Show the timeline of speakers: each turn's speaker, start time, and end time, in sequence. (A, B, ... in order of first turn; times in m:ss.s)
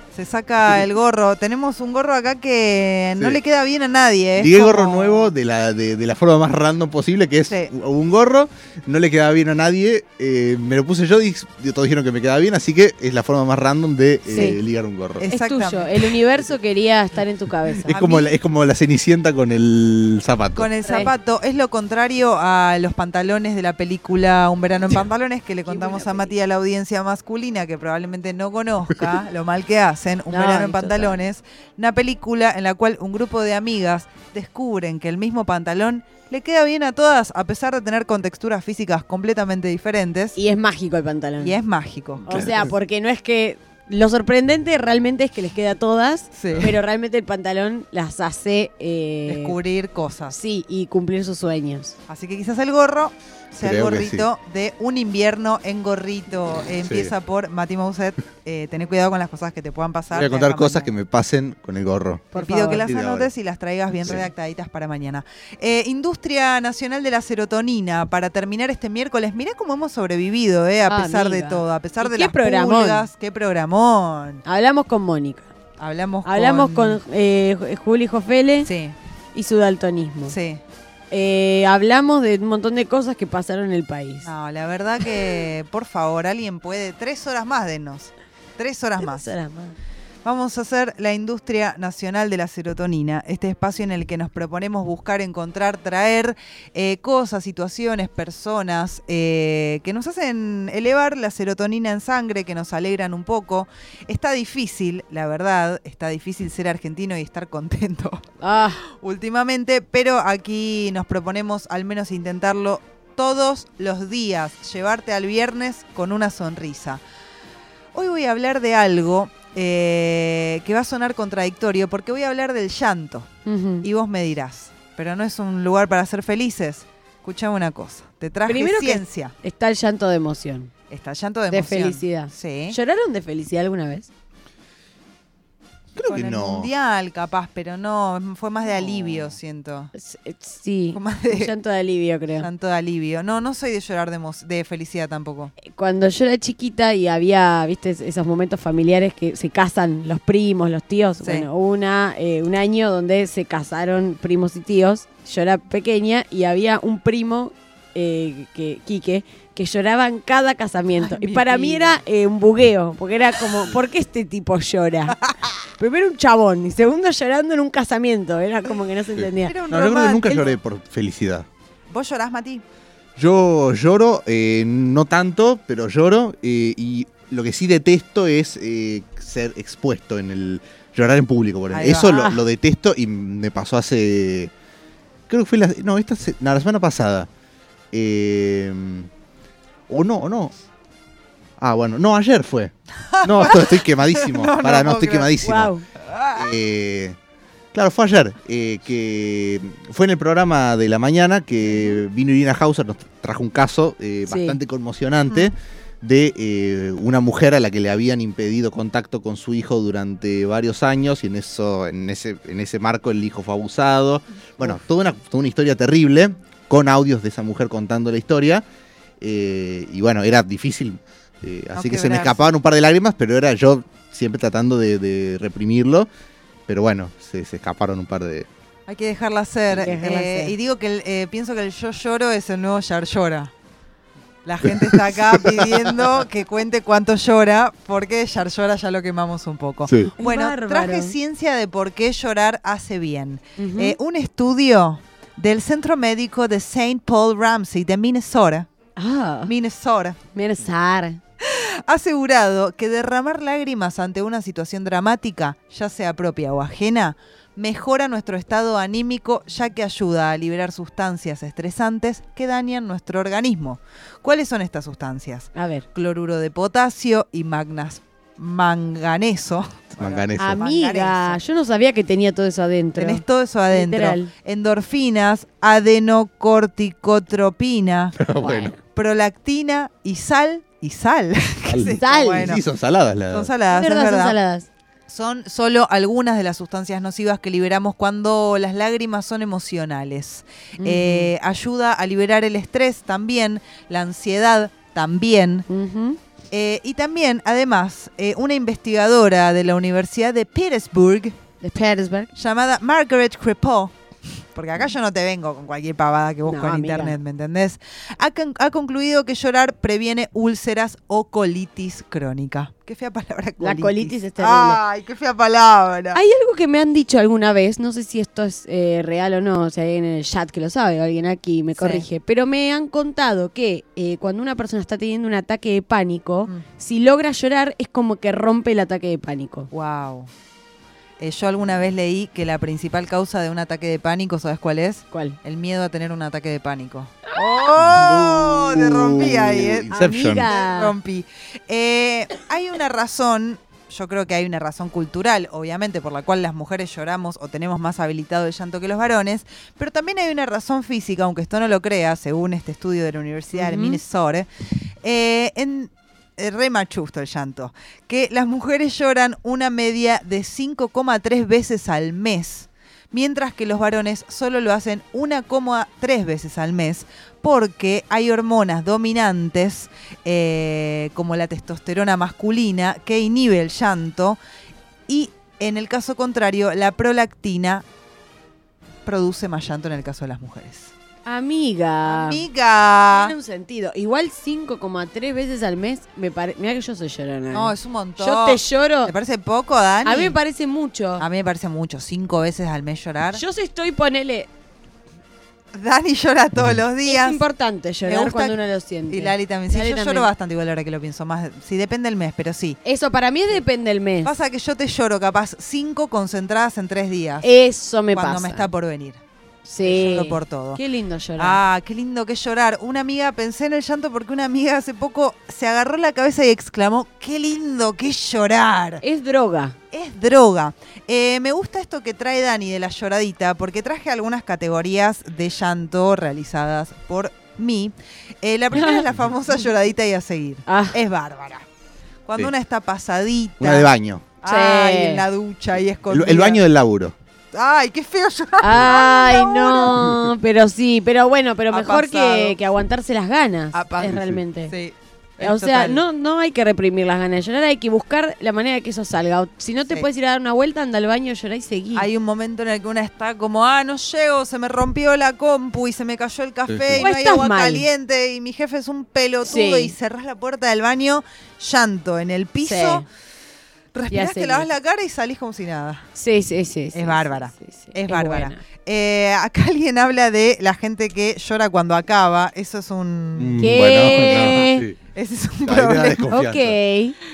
0:00.1-0:05.3 A
0:04.4-0:15.3 B
0:04.6-0:05.0 C
0:14.3-0:14.6 C
0:15.2-0:15.9 A
0:15.3-0:18.0 C
0:17.9-0:20.7 B
0:17.9-0:18.3 A
0:20.5-0:40.4 A
0:20.8-0:21.1 C
0:25.6-0:26.3 C
0:30.3-0:31.2 C
0:40.3-0:41.6 C
0:41.4-0:42.5 A
0:42.3-0:42.6 B
0:42.3-0:49.5 C
0:46.3-0:46.7 A
0:49.3-0:50.4 A
0:50.3-0:52.0 C
0:52.1-1:00.9 A
0:53.6-0:54.3 B
0:56.8-0:57.1 B
1:00.1-1:03.3 B
1:02.3-1:02.8 C
1:02.4-1:14.4 A
1:10.8-1:13.0 C
1:14.4-1:15.5 C
1:15.8-1:17.0 A
1:16.2-1:18.7 C
1:18.6-1:19.0 A
1:19.3-1:20.4 C
1:20.3-1:20.6 A
1:21.1-1:24.3 C
1:24.2-1:29.3 A
1:29.0-1:29.8 C
1:30.2-1:48.2 A
1:48.4-1:48.8 C
1:49.0-1:57.0 A
1:57.9-2:03.3 A
2:03.4-2:03.9 C
2:03.8-2:09.3 A
2:08.5-2:10.7 C
2:10.9-2:12.8 A
2:11.5-2:14.1 C
2:16.0-2:16.7 B
2:16.1-2:19.9 A
2:19.9-2:22.5 C
2:20.9-2:21.5 A
2:22.4-2:25.5 A
2:25.6-2:45.2 C
2:31.2-2:31.5 A
2:41.0-2:41.9 A
2:45.2-2:45.5 A
2:45.8-2:49.6 C
2:49.2-2:51.4 B
2:49.4-2:50.6 A
2:51.9-2:52.6 A
2:53.2-3:04.5 B
3:01.7-3:02.2 A
3:02.1-3:02.4 C
3:05.3-3:07.3 B
3:07.9-3:09.1 B
3:09.9-3:10.5 B
3:11.6-3:12.7 B
3:13.1-3:15.3 A
3:13.2-3:15.7 B
3:15.4-3:15.8 C
3:16.1-3:16.4 A
3:16.3-3:17.2 B
3:17.7-3:38.6 B
3:24.3-3:24.6 C
3:39.2-3:46.1 B
3:41.7-3:42.4 A
3:46.7-3:48.5 B
3:48.9-3:53.5 A
3:49.7-3:50.5 C
3:54.4-4:08.7 A
3:59.8-4:00.1 B
4:00.2-4:01.1 C
4:03.6-4:04.0 C
4:09.0-4:09.5 C
4:09.5-4:10.2 A
4:10.3-4:11.2 C
4:11.4-4:31.4 A
4:25.5-4:25.8 C
4:30.0-4:30.6 B
4:30.4-4:34.3 C
4:33.0-4:38.1 A
4:38.2-4:38.7 B
4:38.4-4:38.8 C
4:38.9-4:42.6 A
4:41.7-4:43.5 B
4:41.8-4:42.6 C
4:43.3-4:44.4 A
4:43.7-4:44.7 C
4:45.1-4:55.6 A
4:50.8-4:51.3 C
4:55.7-4:56.2 C
4:56.5-5:01.3 A
5:01.6-5:02.3 C
5:02.3-5:03.9 A
5:04.5-5:16.2 A
5:06.4-5:07.1 C
5:13.6-5:14.8 C
5:16.1-5:29.7 C
5:21.8-5:22.0 A
5:29.7-5:30.3 A
5:31.2-5:54.5 A
5:35.1-5:35.4 C
5:37.8-5:40.5 B
5:39.9-5:40.9 C
5:53.5-5:54.0 C
5:55.0-6:14.4 A
6:15.1-6:17.8 A
6:19.0-6:20.9 A
6:21.2-6:22.4 C
6:22.0-6:23.3 A
6:23.1-6:29.1 C
6:27.5-6:30.4 A
6:30.0-6:31.2 C
6:31.2-6:33.4 A
6:33.3-6:34.5 C
6:35.8-6:37.4 A
6:37.0-6:40.3 C
6:38.0-6:42.8 A
6:42.8-6:44.3 C
6:44.2-6:47.5 A
6:47.4-6:48.7 C
6:48.1-6:49.2 A
6:49.6-6:51.6 C
6:49.8-6:50.8 A
6:51.4-6:59.0 A
6:59.0-6:59.8 C
6:59.9-7:11.6 A
7:08.7-7:09.0 C
7:10.7-7:11.0 C
7:12.2-7:13.9 A
7:13.6-7:14.2 B
7:14.4-7:16.6 A
7:14.4-7:15.2 C
7:16.1-7:17.1 B
7:17.5-7:20.0 A
7:18.6-7:24.7 C
7:21.7-7:22.6 A
7:23.7-7:26.0 A
7:25.4-7:32.1 C
7:31.9-7:43.0 A
7:36.7-7:37.1 B
7:37.0-7:37.8 C
7:39.4-7:39.9 C
7:42.6-7:43.1 C
7:43.9-7:46.0 A
7:44.1-7:44.7 C
7:46.1-7:48.6 C
7:46.9-7:54.6 A
7:53.4-7:55.0 B
7:53.6-7:54.9 C
7:55.1-7:56.3 A
7:55.6-7:56.8 B
7:56.3-7:57.1 C